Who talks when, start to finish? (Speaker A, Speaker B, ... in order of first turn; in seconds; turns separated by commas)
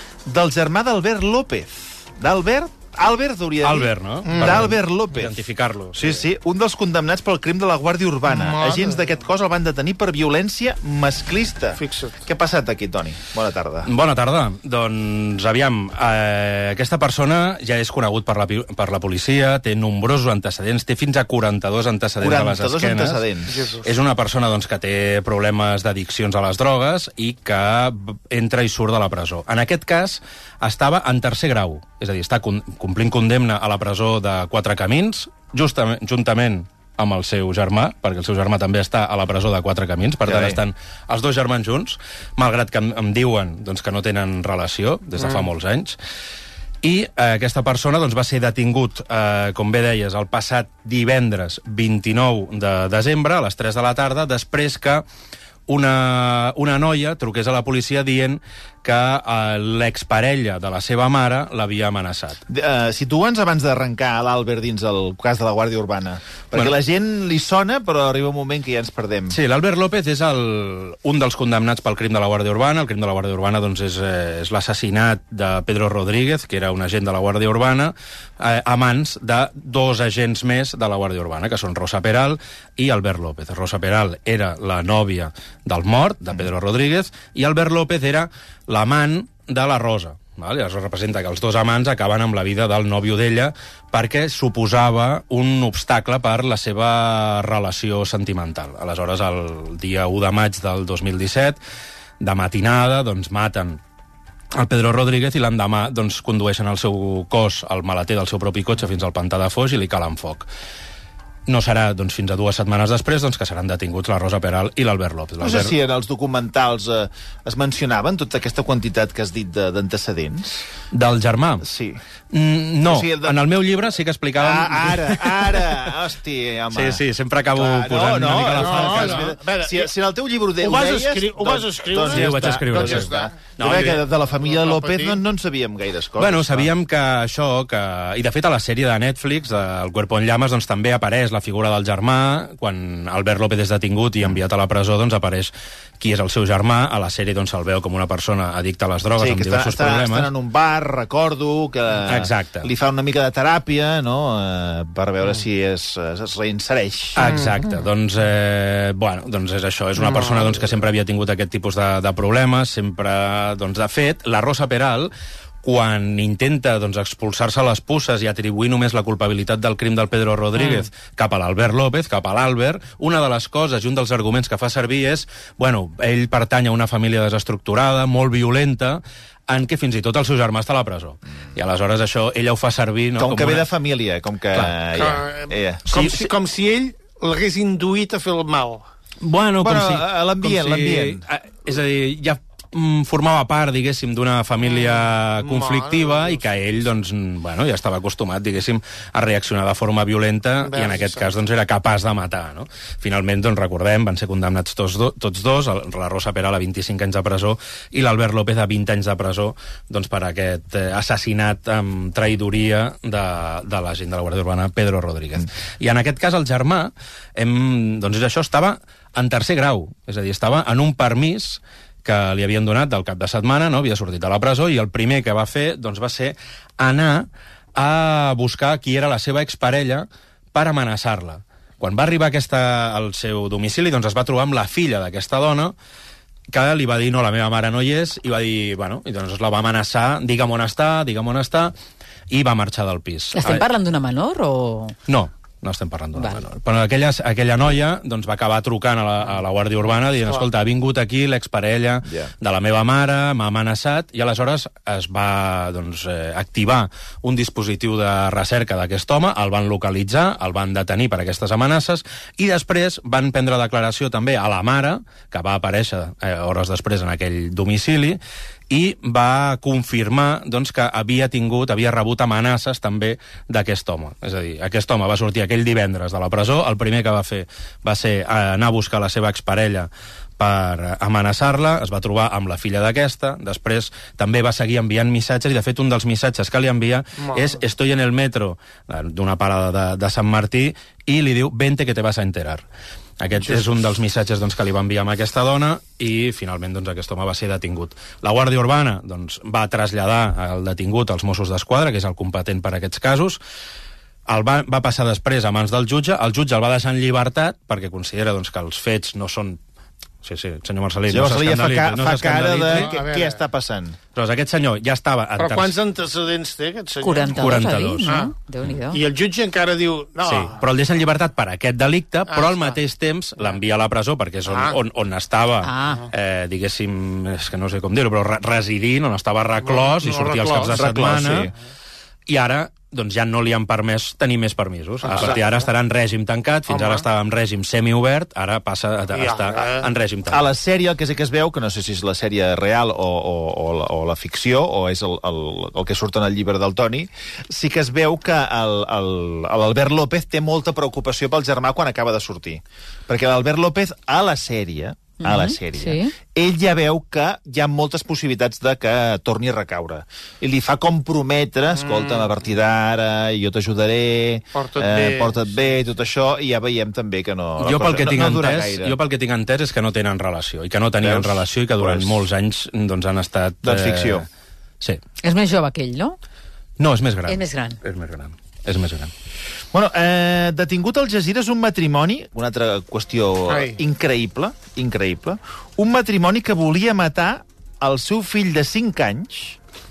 Speaker A: 0.3-5.3, Speaker B: 3.6-6.2, Speaker C: 4.3-4.7, Speaker A: 6.0-13.9, Speaker C: 8.3-9.0, Speaker C: 11.8-12.2, Speaker B: 13.9-23.2, Speaker A: 22.2-23.6, Speaker C: 23.5-23.9, Speaker B: 23.8-46.0, Speaker A: 40.2-40.6, Speaker B: 46.8-55.0, Speaker B: 55.7-62.4, Speaker A: 62.5-69.4, Speaker B: 69.3-101.6, Speaker B: 102.2-103.8, Speaker B: 104.5-110.5, Speaker B: 111.5-115.7, Speaker A: 115.4-120.6, Speaker B: 120.9-121.7, Speaker A: 121.6-122.0, Speaker B: 122.3-125.8, Speaker A: 122.8-123.4, Speaker A: 124.4-127.0, Speaker B: 126.7-129.3, Speaker A: 127.5-136.7, Speaker C: 128.6-129.9, Speaker C: 130.6-135.2, Speaker B: 132.0-134.0, Speaker B: 136.2-150.3, Speaker A: 149.2-157.2, Speaker B: 152.1-152.7, Speaker B: 157.2-165.1, Speaker C: 157.2-157.6, Speaker C: 160.0-160.5, Speaker B: 165.6-183.7, Speaker A: 183.2-186.3, Speaker C: 184.9-188.9, Speaker B: 189.2-235.8, Speaker A: 189.6-191.2, Speaker C: 194.7-196.5, Speaker C: 200.7-201.3, Speaker B: 236.5-241.7, Speaker B: 242.3-243.6, Speaker D: 243.3-245.0, Speaker B: 245.1-292.6, Speaker A: 252.1-252.3, Speaker C: 287.2-287.6, Speaker B: 293.2-303.4, Speaker B: 304.3-309.6, Speaker B: 310.2-312.9, Speaker A: 311.1-314.0, Speaker C: 312.7-313.4, Speaker B: 314.1-315.8, Speaker C: 315.4-317.5, Speaker D: 317.0-319.0, Speaker B: 317.3-318.1, Speaker C: 318.1-318.3, Speaker C: 318.9-320.6, Speaker B: 320.2-331.5, Speaker C: 322.3-322.8, Speaker C: 324.5-324.8, Speaker D: 325.6-326.1, Speaker C: 329.6-330.8, Speaker A: 330.7-331.5, Speaker B: 332.3-340.5, Speaker C: 335.0-335.6, Speaker C: 336.7-337.1, Speaker C: 339.1-339.9, Speaker A: 340.3-369.0, Speaker D: 355.2-356.1, Speaker C: 361.8-362.3, Speaker C: 364.6-365.7, Speaker B: 367.6-374.3, Speaker A: 371.0-372.2, Speaker A: 373.6-374.3, Speaker D: 375.2-376.2, Speaker B: 376.8-379.1, Speaker D: 377.3-377.8, Speaker A: 379.7-389.6, Speaker C: 383.5-383.8